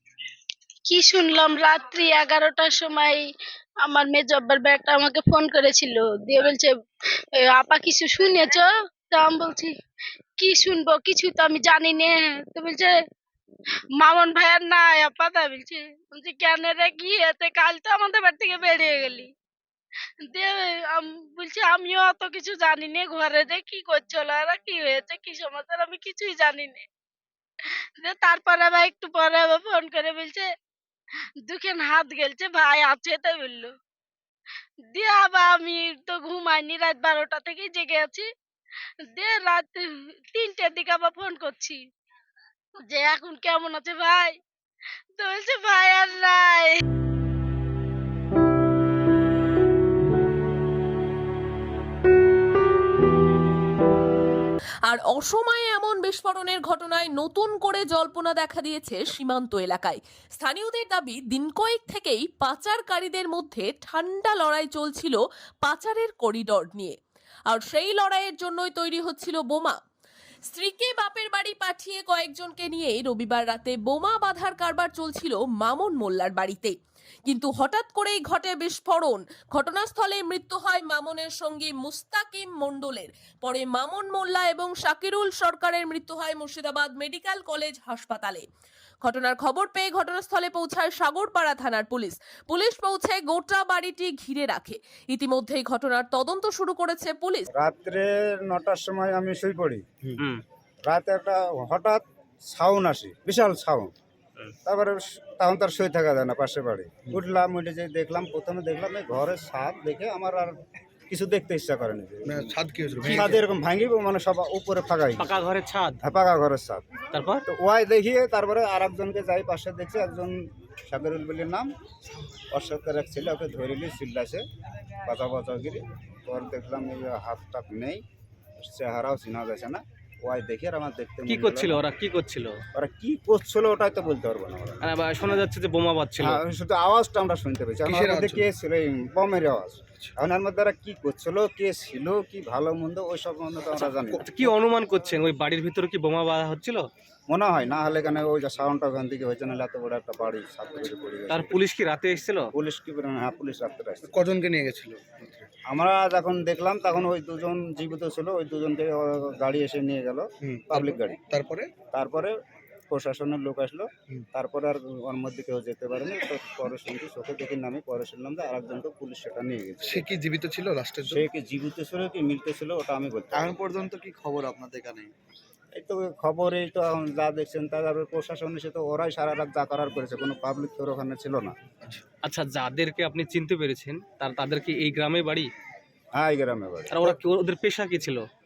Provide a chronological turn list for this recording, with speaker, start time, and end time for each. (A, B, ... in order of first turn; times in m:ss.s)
0:00.9-0:03.2 A
0:03.8-0:06.7 A
0:07.4-0:09.7 A
0:10.4-0:13.0 A
0:14.0-0:19.3 A
0:20.2-0:26.8 A
0:28.0-0:30.5 A
0:31.5-0:33.7 A
0:34.9-0:38.3 A
0:39.1-0:41.8 A
0:42.9-0:44.4 A
0:45.2-0:46.8 A
0:54.9-1:07.0 B
1:07.5-1:09.8 B
1:10.5-1:28.4 B
1:29.0-1:37.5 B
1:37.6-1:39.8 C
1:40.9-1:43.9 C
1:44.6-1:50.5 C
1:51.1-1:55.3 C
1:52.2-1:53.4 D
1:55.2-1:56.0 E
1:56.0-1:56.8 C
1:57.1-1:57.4 E
1:57.5-2:01.7 C
2:02.5-2:04.4 C
2:05.0-2:08.0 C
2:08.6-2:11.9 C
2:11.3-2:12.6 E
2:12.8-2:15.4 C
2:14.8-2:16.4 E
2:16.2-2:24.3 C
2:17.8-2:18.5 D
2:23.8-2:26.9 E
2:23.9-2:24.4 D
2:27.3-2:31.6 C
2:31.3-2:32.5 E
2:32.5-2:34.1 C
2:34.1-2:35.5 D
2:35.7-2:41.2 C
2:40.4-2:41.7 D
2:41.9-2:42.3 C
2:42.9-2:50.1 C
2:49.8-2:51.3 D
2:51.0-2:53.6 C
2:53.3-2:55.1 D
2:55.8-3:01.6 C
3:02.2-3:05.5 E
3:06.2-3:07.2 C
3:06.9-3:08.3 E